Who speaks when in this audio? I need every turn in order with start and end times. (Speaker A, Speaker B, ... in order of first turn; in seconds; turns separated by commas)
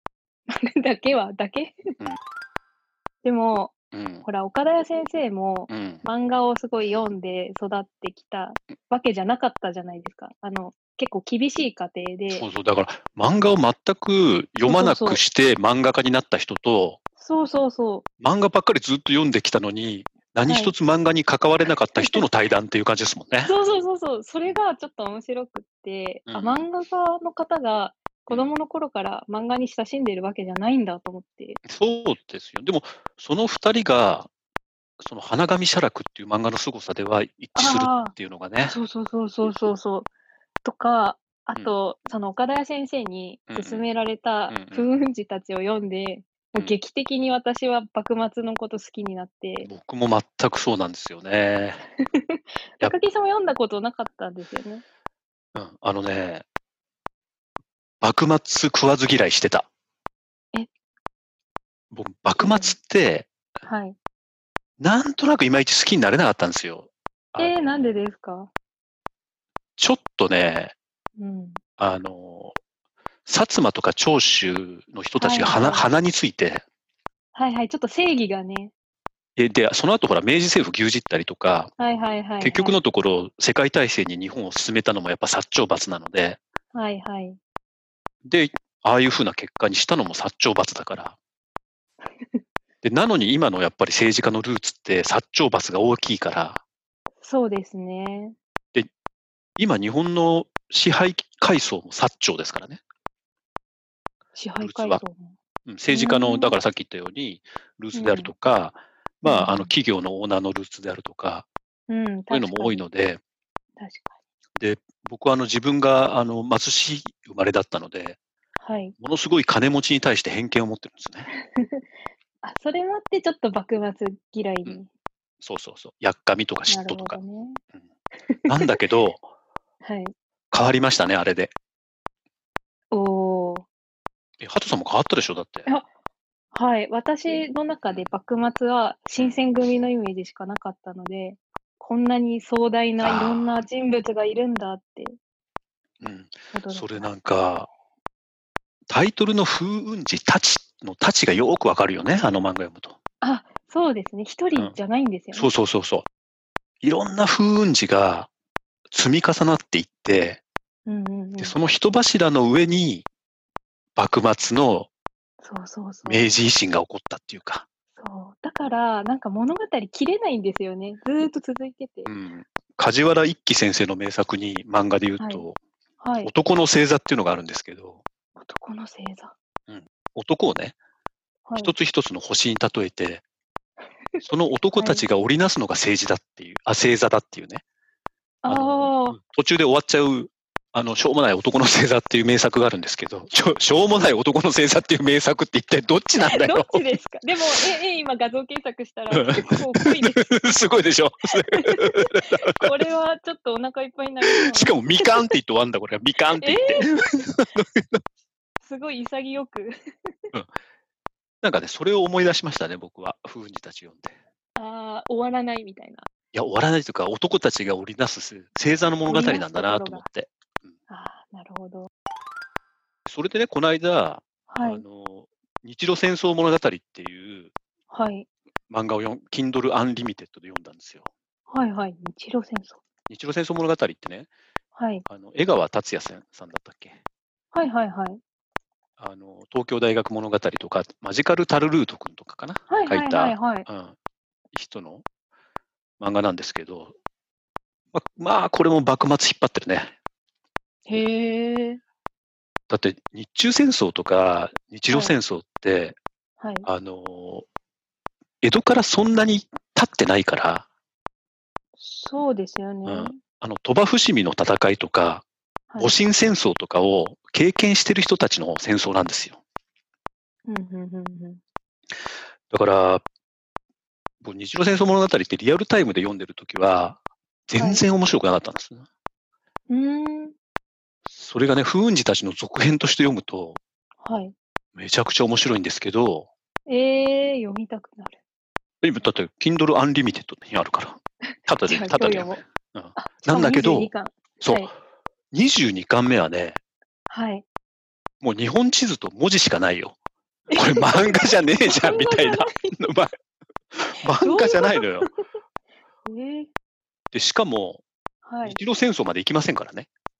Speaker A: 0.5-1.8, Speaker A: 3.2-12.4, Speaker B: 3.9-4.2, Speaker B: 5.7-6.0, Speaker B: 12.3-17.0, Speaker A: 14.6-15.2, Speaker A: 17.2-18.1, Speaker B: 18.2-23.5, Speaker A: 20.5-20.7, Speaker A: 22.0-22.2, Speaker A: 23.4-31.6, Speaker B: 26.3-26.7, Speaker B: 28.3-28.5, Speaker B: 31.6-34.3, Speaker B: 35.0-38.7, Speaker A: 37.5-38.1, Speaker A: 38.6-40.1, Speaker B: 39.4-39.7, Speaker A: 40.6-49.7, Speaker B: 43.5-43.8, Speaker B: 44.5-44.9, Speaker B: 49.6-51.8, Speaker A: 52.1-54.8, Speaker B: 55.5-56.4, Speaker B: 58.0-59.7, Speaker B: 61.9-63.3, Speaker A: 62.4-62.7, Speaker A: 63.6-64.0, Speaker B: 64.8-67.9, Speaker A: 67.4-68.5, Speaker B: 69.8-70.7, Speaker A: 71.2-71.6, Speaker B: 71.8-72.5, Speaker B: 73.2-76.6, Speaker A: 75.2-75.9, Speaker A: 77.3-78.7, Speaker B: 79.3-81.7, Speaker A: 81.8-82.8, Speaker B: 82.4-86.4, Speaker A: 86.7-87.4, Speaker B: 88.2-91.2, Speaker B: 92.8-96.6, Speaker A: 97.2-98.3, Speaker B: 99.6-102.8, Speaker A: 104.3-105.3, Speaker B: 104.6-105.0, Speaker B: 105.7-111.5, Speaker A: 105.9-106.6, Speaker A: 107.9-108.3, Speaker A: 109.2-109.7, Speaker A: 111.9-112.8, Speaker B: 112.3-113.2, Speaker A: 113.8-114.2, Speaker B: 114.6-118.2, Speaker A: 118.6-118.9, Speaker B: 119.0-121.3, Speaker A: 121.3-121.8, Speaker A: 122.4-124.9, Speaker B: 125.4-127.2, Speaker A: 126.7-127.6, Speaker A: 128.2-128.8, Speaker B: 128.5-129.2, Speaker A: 129.8-130.1, Speaker B: 130.5-131.5, Speaker A: 132.9-133.7, Speaker B: 134.4-135.7, Speaker A: 136.5-145.2, Speaker B: 139.2-139.4, Speaker B: 143.0-143.6, Speaker B: 146.0-147.7, Speaker A: 146.5-147.1, Speaker B: 148.9-152.9, Speaker A: 153.2-155.5, Speaker B: 155.3-156.1, Speaker B: 156.8-158.3, Speaker B: 158.9-160.4, Speaker A: 160.8-161.6, Speaker B: 161.4-163.1, Speaker B: 163.9-164.9, Speaker A: 165.4-166.3, Speaker B: 166.1-167.7, Speaker A: 168.0-172.1, Speaker B: 172.1-175.6, Speaker A: 175.2-175.4, Speaker A: 176.0-176.3, Speaker B: 176.2-178.0, Speaker A: 178.4-179.3, Speaker B: 179.7-180.8, Speaker A: 181.5-181.7, Speaker B: 181.6-183.2, Speaker B: 184.2-187.6, Speaker A: 184.7-185.0, Speaker A: 188.4-189.2, Speaker B: 188.5-196.8, Speaker A: 196.2-200.3, Speaker B: 199.1-202.7, Speaker A: 201.5-205.3, Speaker B: 204.3-208.0, Speaker A: 206.4-206.9, Speaker A: 208.6-209.7, Speaker B: 211.4-214.2, Speaker A: 214.6-216.1, Speaker B: 216.3-220.3, Speaker A: 219.1-220.1, Speaker A: 220.9-221.9, Speaker B: 223.1-227.5, Speaker A: 224.5-224.8, Speaker A: 227.9-228.3, Speaker B: 228.7-231.1, Speaker A: 231.5-232.8, Speaker B: 233.1-234.3, Speaker A: 234.7-235.0, Speaker B: 235.1-237.0, Speaker A: 237.5-238.2, Speaker B: 239.0-243.9, Speaker A: 242.7-243.7, Speaker B: 244.5-245.0, Speaker B: 246.0-246.9, Speaker B: 247.9-249.9, Speaker A: 250.9-251.8, Speaker B: 252.7-256.0, Speaker A: 254.9-255.2, Speaker A: 256.4-256.7, Speaker B: 256.6-257.4, Speaker B: 258.4-260.6, Speaker A: 261.8-263.2, Speaker B: 262.9-265.2, Speaker B: 265.8-269.4, Speaker A: 270.5-271.4, Speaker B: 272.5-273.0, Speaker B: 274.2-278.8, Speaker A: 277.6-277.8, Speaker A: 279.7-280.3, Speaker B: 281.1-283.6, Speaker A: 284.0-284.3, Speaker B: 284.7-286.3, Speaker A: 286.7-288.2, Speaker B: 288.8-294.7, Speaker A: 291.7-292.4, Speaker A: 292.9-294.7, Speaker B: 295.3-296.6, Speaker A: 297.1-297.4, Speaker B: 298.2-299.9, Speaker A: 300.5-302.7, Speaker B: 300.5-303.1, Speaker B: 303.7-305.1, Speaker A: 304.2-304.9, Speaker A: 306.1-306.5, Speaker B: 307.1-307.8, Speaker A: 308.2-308.6, Speaker B: 308.4-309.9